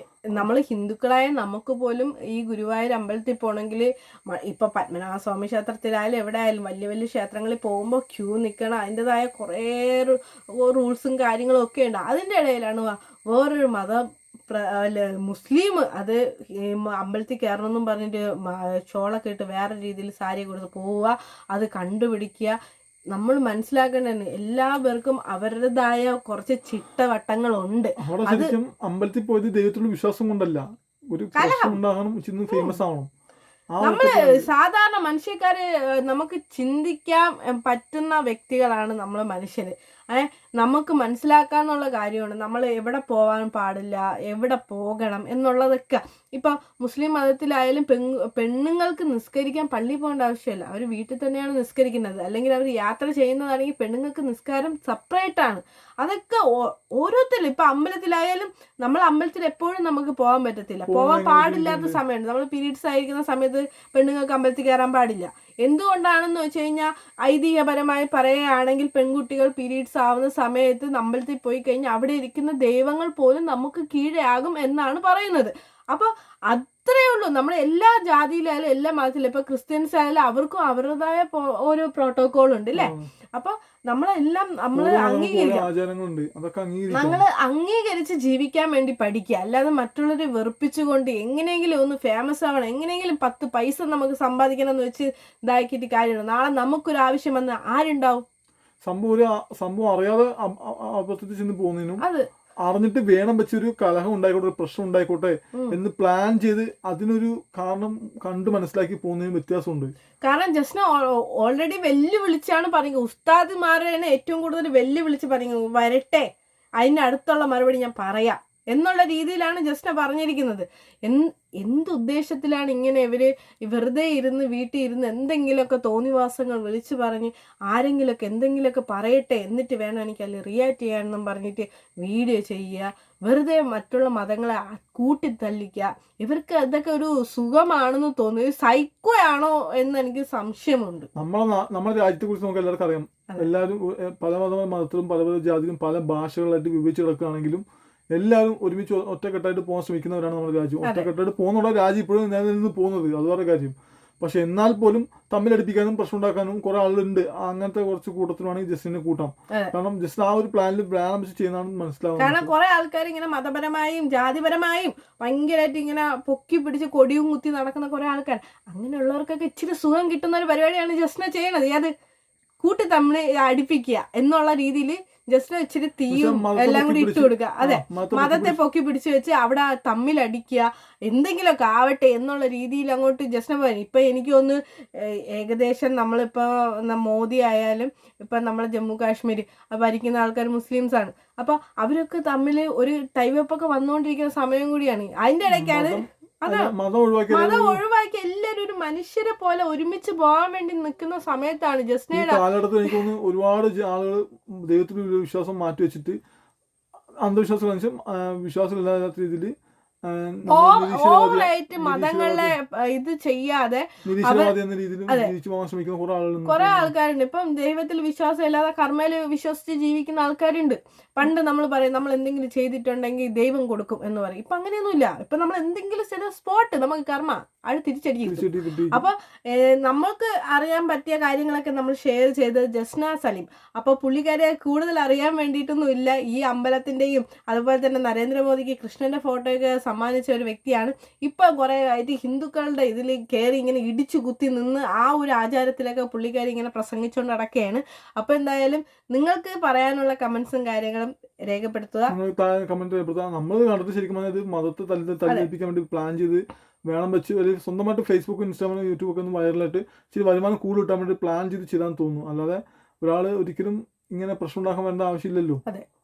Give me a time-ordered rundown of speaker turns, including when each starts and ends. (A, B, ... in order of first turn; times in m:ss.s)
0:00.3-0:22.6 A
0:23.1-0:28.5 A
0:28.0-0:33.1 B
0:31.3-0:31.8 A
0:32.5-0:32.8 A
0:33.7-0:34.4 B
0:33.8-1:25.6 A
1:00.8-1:02.0 B
1:22.7-1:23.0 B
1:24.7-1:27.2 B
1:26.9-1:38.2 A
1:38.8-1:42.0 B
1:42.6-1:49.9 B
1:50.2-1:56.3 A
1:56.8-2:21.1 A
2:21.2-2:42.5 B
2:42.2-2:51.9 A
2:52.6-3:16.7 A
2:56.1-2:58.6 B
3:15.5-3:17.8 B
3:17.3-3:22.4 A
3:22.1-3:26.2 B
3:27.2-3:29.5 B
3:30.1-3:32.5 B
3:30.5-3:34.5 A
3:34.0-3:36.9 B
3:36.4-4:12.1 A
3:48.2-3:49.0 B
4:12.1-4:25.6 B